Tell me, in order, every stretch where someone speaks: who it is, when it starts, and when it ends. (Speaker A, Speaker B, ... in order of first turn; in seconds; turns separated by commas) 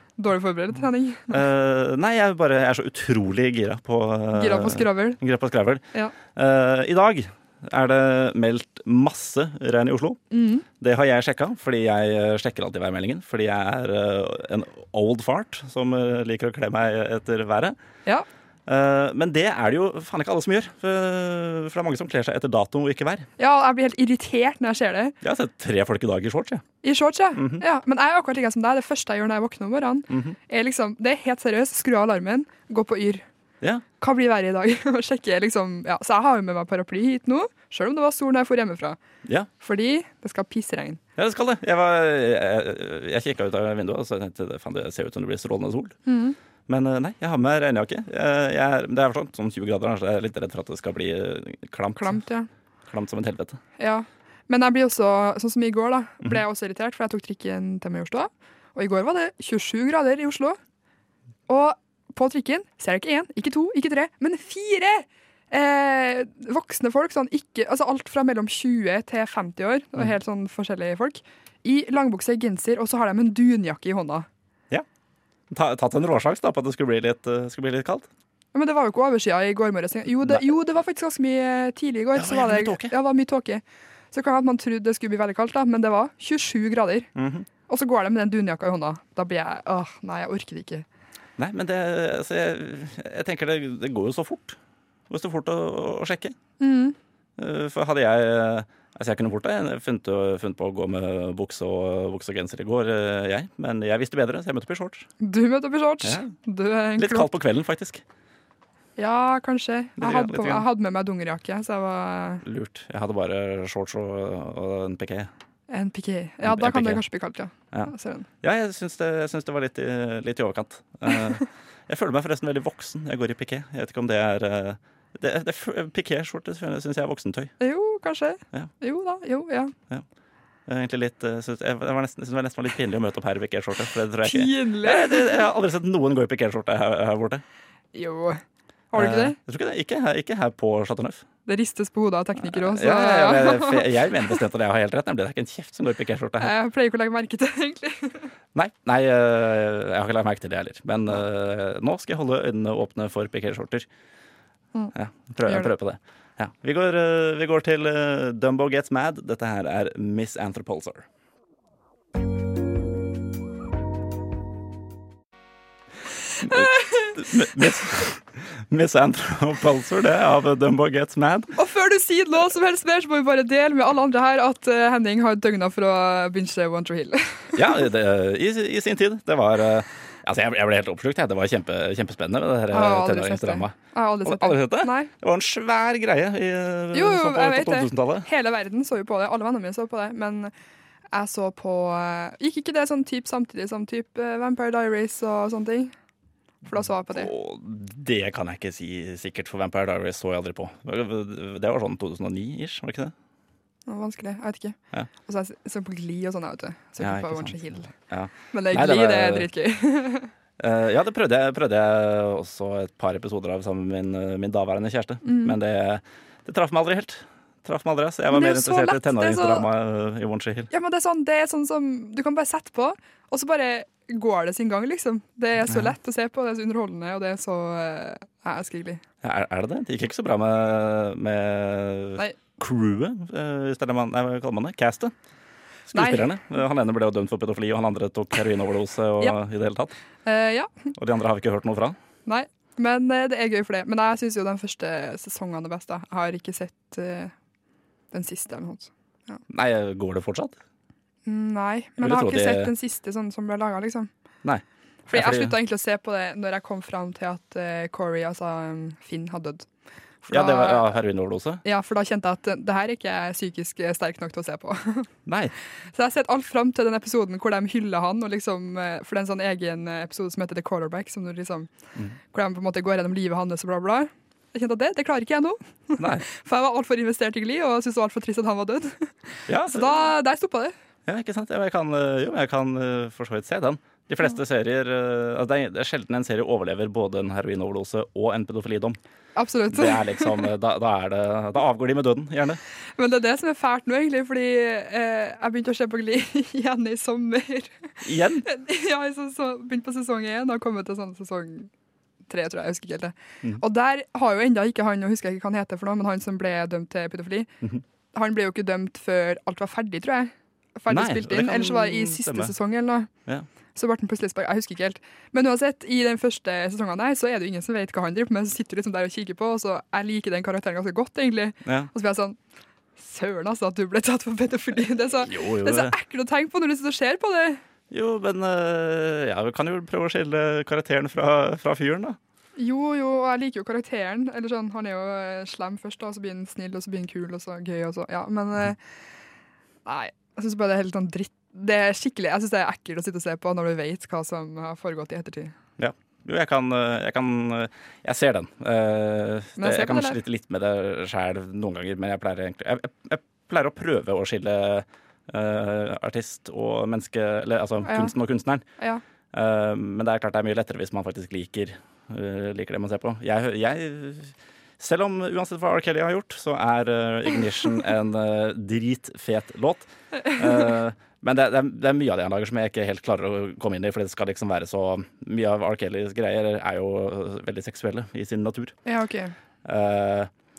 Speaker A: 0.2-1.4, Speaker B: 1.3-10.2, Speaker A: 4.3-5.2, Speaker A: 10.3-10.7, Speaker B: 10.8-17.8, Speaker B: 18.7-23.3, Speaker A: 23.4-25.2, Speaker B: 25.2-26.6, Speaker A: 26.8-33.3, Speaker B: 27.4-27.6, Speaker B: 30.1-30.4, Speaker A: 34.0-39.0, Speaker B: 39.2-39.5, Speaker A: 39.6-41.0, Speaker B: 41.2-46.0, Speaker A: 46.1-46.4, Speaker B: 46.7-52.2, Speaker A: 52.0-52.5, Speaker B: 52.9-53.6, Speaker A: 53.8-60.6, Speaker A: 61.5-74.3, Speaker B: 75.5-78.1, Speaker A: 78.5-87.1, Speaker B: 82.1-83.0, Speaker B: 87.2-87.5, Speaker A: 87.7-90.8, Speaker B: 91.4-94.6, Speaker B: 95.1-96.4, Speaker A: 96.6-97.0, Speaker B: 97.4-105.1, Speaker A: 105.2-107.3, Speaker B: 106.0-106.3, Speaker B: 107.0-108.0, Speaker A: 109.0-112.4, Speaker B: 110.0-110.7, Speaker B: 112.4-115.3, Speaker A: 115.7-118.3, Speaker B: 116.4-117.0, Speaker B: 117.7-127.5, Speaker A: 127.6-129.7, Speaker B: 130.7-137.4, Speaker A: 134.2-135.4, Speaker A: 137.9-139.4, Speaker B: 138.9-141.3, Speaker A: 141.5-143.9, Speaker B: 142.4-146.5, Speaker A: 146.4-148.3, Speaker B: 148.6-153.9, Speaker B: 154.9-161.1, Speaker A: 155.4-155.7, Speaker B: 166.4-171.5, Speaker A: 171.6-177.8, Speaker B: 177.6-188.3, Speaker A: 182.7-185.1, Speaker A: 186.9-190.5, Speaker A: 191.1-195.9, Speaker A: 196.7-197.3, Speaker B: 196.7-203.1, Speaker A: 203.9-207.9, Speaker B: 207.0-209.5, Speaker A: 208.5-210.3, Speaker B: 210.6-220.7, Speaker A: 215.2-215.6, Speaker A: 218.3-219.7, Speaker A: 220.7-229.0, Speaker B: 225.7-225.9, Speaker B: 229.2-235.1, Speaker B: 235.9-239.9, Speaker A: 235.9-236.3, Speaker A: 240.2-240.9, Speaker B: 241.0-242.0, Speaker A: 242.3-247.3, Speaker A: 248.1-249.4, Speaker B: 249.5-250.6, Speaker A: 251.3-254.1, Speaker B: 252.0-252.7, Speaker B: 254.4-255.6, Speaker A: 255.1-259.7, Speaker A: 260.2-260.9, Speaker B: 260.3-261.6, Speaker A: 261.6-265.1, Speaker B: 265.3-265.5, Speaker A: 265.9-271.7, Speaker A: 272.3-280.7, Speaker B: 276.0-276.2, Speaker B: 279.5-280.1, Speaker B: 281.1-289.0, Speaker A: 289.4-290.5, Speaker B: 289.7-292.6, Speaker A: 293.0-297.9, Speaker B: 298.0-298.5, Speaker A: 298.5-301.7, Speaker A: 302.3-307.5, Speaker A: 308.1-313.1, Speaker B: 310.9-312.6, Speaker A: 313.8-322.4, Speaker B: 321.6-321.9, Speaker A: 323.0-327.6, Speaker B: 325.2-325.9, Speaker B: 327.9-332.2, Speaker A: 332.6-338.8, Speaker A: 339.9-345.5, Speaker B: 345.8-358.6, Speaker A: 349.6-350.2, Speaker A: 357.9-358.1, Speaker B: 359.3-378.8, Speaker A: 378.9-379.3, Speaker B: 379.6-380.3